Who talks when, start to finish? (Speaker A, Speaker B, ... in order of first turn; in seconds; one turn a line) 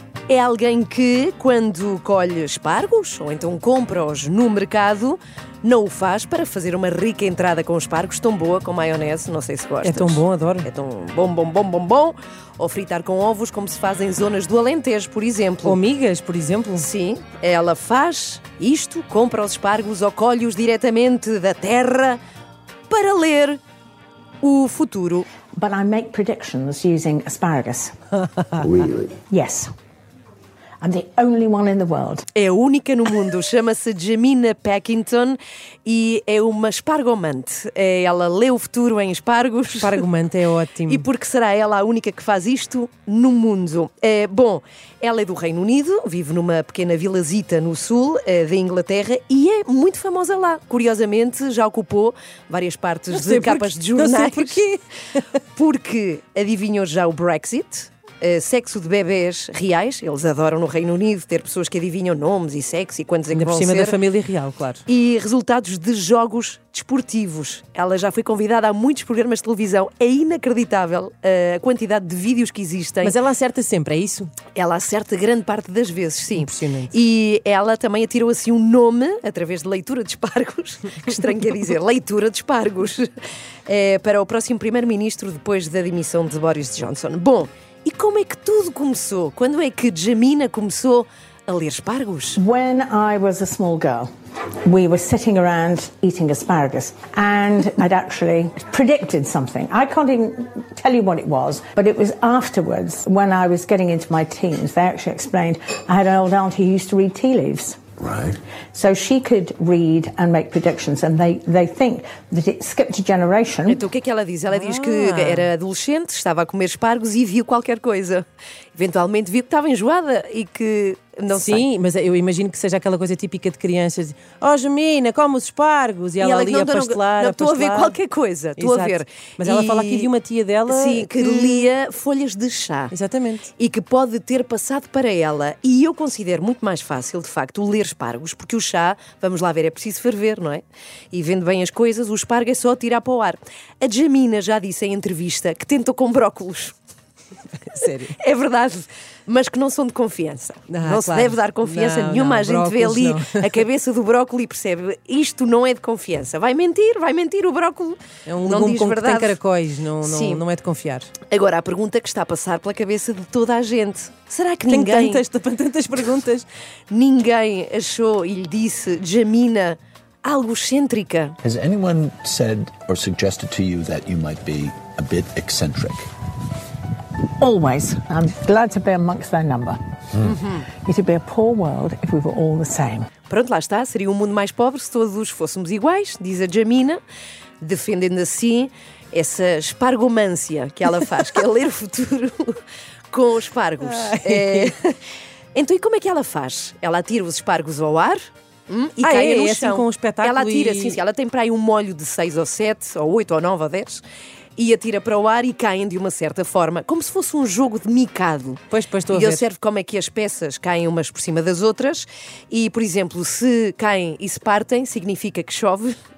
Speaker A: 0.3-15.8
Speaker B: 9.8-10.7
Speaker B: 15.7-16.9
Speaker A: 16.8-22.2
Speaker A: 22.9-23.6
Speaker A: 24.4-25.3
Speaker C: 25.6-27.9
Speaker D: 28.6-29.2
Speaker C: 29.3-29.7
Speaker C: 30.8-32.3
Speaker A: 32.4-40.0
Speaker B: 39.8-41.0
Speaker A: 40.9-54.6
Speaker B: 53.1-54.8
Speaker A: 55.6-64.0
Speaker B: 63.3-64.8
Speaker A: 64.9-73.1
Speaker B: 73.0-74.4
Speaker A: 74.5-83.1
Speaker B: 76.3-76.9
Speaker A: 83.7-92.4
Speaker C: 92.3-94.1
Speaker C: 94.7-107.8
Speaker D: 108.0-108.4
Speaker C: 108.7-113.8
Speaker A: 113.7-121.6
Speaker B: 114.5-115.5
Speaker B: 121.3-128.0
Speaker A: 126.2-130.1
Speaker B: 128.6-131.7
Speaker A: 130.7-132.9
Speaker B: 132.9-133.5
Speaker A: 133.6-146.8
Speaker B: 147.6-148.2
Speaker A: 148.2-159.4
Speaker B: 150.7-153.6
Speaker B: 158.3-161.1
Speaker A: 160.0-160.4
Speaker A: 161.2-165.2
Speaker B: 164.7-166.5
Speaker A: 166.9-171.4
Speaker D: 171.4-176.1
Speaker C: 177.4-179.8
Speaker A: 180.2-180.7
Speaker C: 180.8-183.1
Speaker A: 183.3-187.0
Speaker A: 187.6-192.6
Speaker A: 193.1-194.9
Speaker B: 193.8-194.7
Speaker A: 195.6-204.0
Speaker B: 199.0-201.0
Speaker A: 204.6-215.9
Speaker B: 208.7-209.4